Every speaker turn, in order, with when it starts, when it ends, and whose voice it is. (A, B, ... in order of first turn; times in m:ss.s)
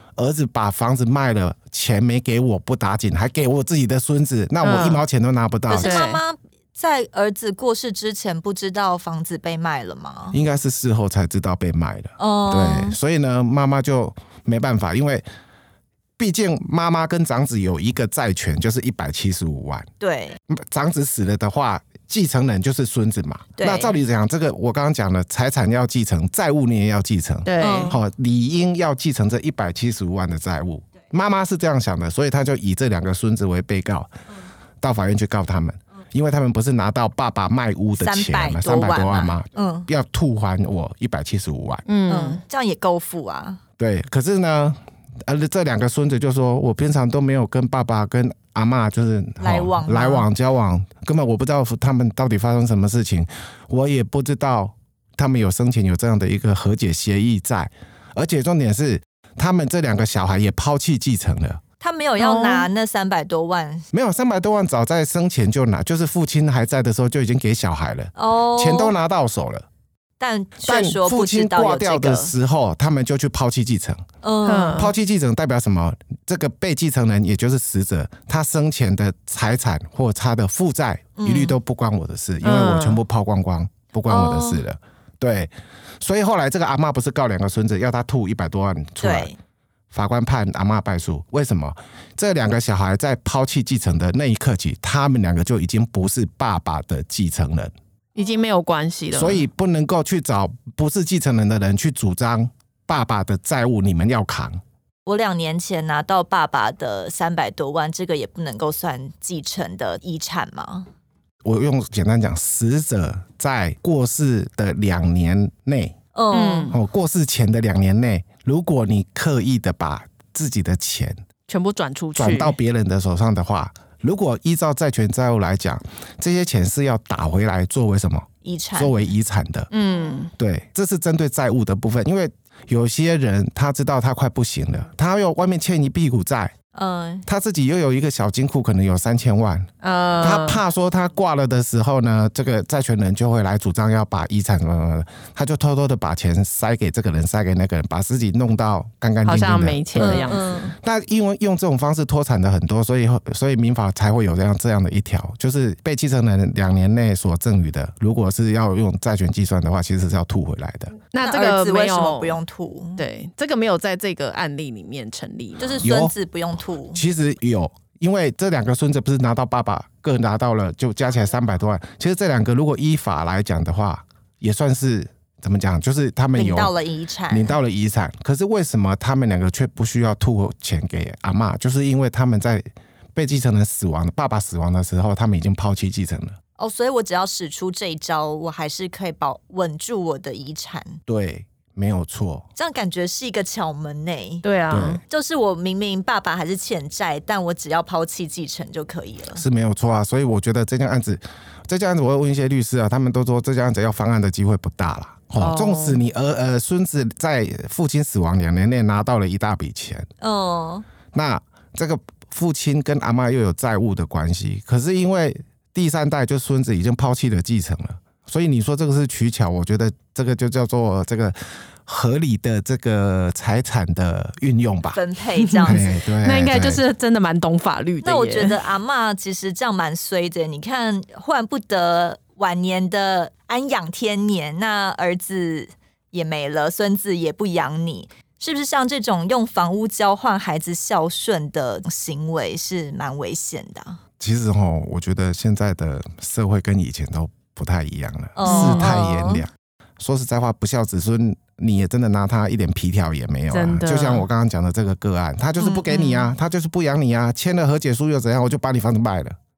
0:00.2-0:06.0 A
0:04.6-0:05.0 B
0:05.7-0:10.4 C
0:05.8-0:06.2 B
0:10.3-0:15.2 A
0:12.2-0:13.0 C
0:16.2-0:19.9 A
0:20.0-0:20.4 C
0:20.5-0:34.1 A
0:23.6-0:24.0 C
0:27.4-0:27.9 B
0:27.6-0:28.0 C
0:34.8-0:41.8 A
0:38.0-0:39.9 C
0:41.9-0:42.4 B
0:42.1-0:43.6 C
0:43.8-1:01.6 A
0:49.4-0:50.3 C
1:01.8-1:03.9 C
1:02.2-1:02.7 B
1:03.9-1:09.7 A
1:08.2-1:08.9 C
1:10.2-1:12.3 C
1:10.6-1:14.0 A
1:14.2-1:14.9 C
1:14.5-1:14.9 B
1:14.7-1:29.3 A
1:21.2-1:21.6 C
1:22.4-1:23.0 B
1:24.1-1:24.6 C
1:29.0-1:29.4 C
1:29.9-1:37.7 A
1:38.2-1:39.5 B
1:39.1-1:44.6 A
1:45.1-1:50.9 C
1:51.4-1:56.0 A
1:56.2-1:56.7 C
1:56.3-1:56.8 B
1:56.7-2:01.2 A
2:01.5-2:02.6 B
2:02.2-2:09.7 A
2:08.4-2:09.1 C
2:09.7-2:10.3 B
2:10.4-2:16.5 A
2:16.7-2:17.2 C
2:17.3-2:19.7 A
2:19.8-2:20.6 B
2:20.2-2:40.9 A
2:29.2-2:30.4 B
2:30.0-2:30.8 C
2:41.1-2:42.4 B
2:41.2-2:43.0 C
2:43.0-2:45.9 B
2:45.6-2:47.0 C
2:45.8-2:46.2 A
2:46.9-2:56.7 A
2:56.3-2:57.6 C
2:57.3-3:02.6 A
3:03.2-3:06.4 A
3:06.6-3:11.0 C
3:11.1-3:12.5 A
3:12.6-3:14.4 C
3:14.4-3:15.0 B
3:14.7-3:15.0 A
3:15.1-3:19.4 C
3:19.4-3:30.1 A
3:25.4-3:26.0 B
3:30.2-3:30.8 C
3:31.1-3:45.0 A
3:44.9-3:45.9 C
3:45.4-3:48.6 B
3:45.6-3:46.8 A
3:48.0-4:04.0 C
4:04.2-4:19.4 A
4:08.4-4:09.4 C
4:08.4-4:08.9 B
4:13.5-4:14.3 B
4:15.7-4:16.3 B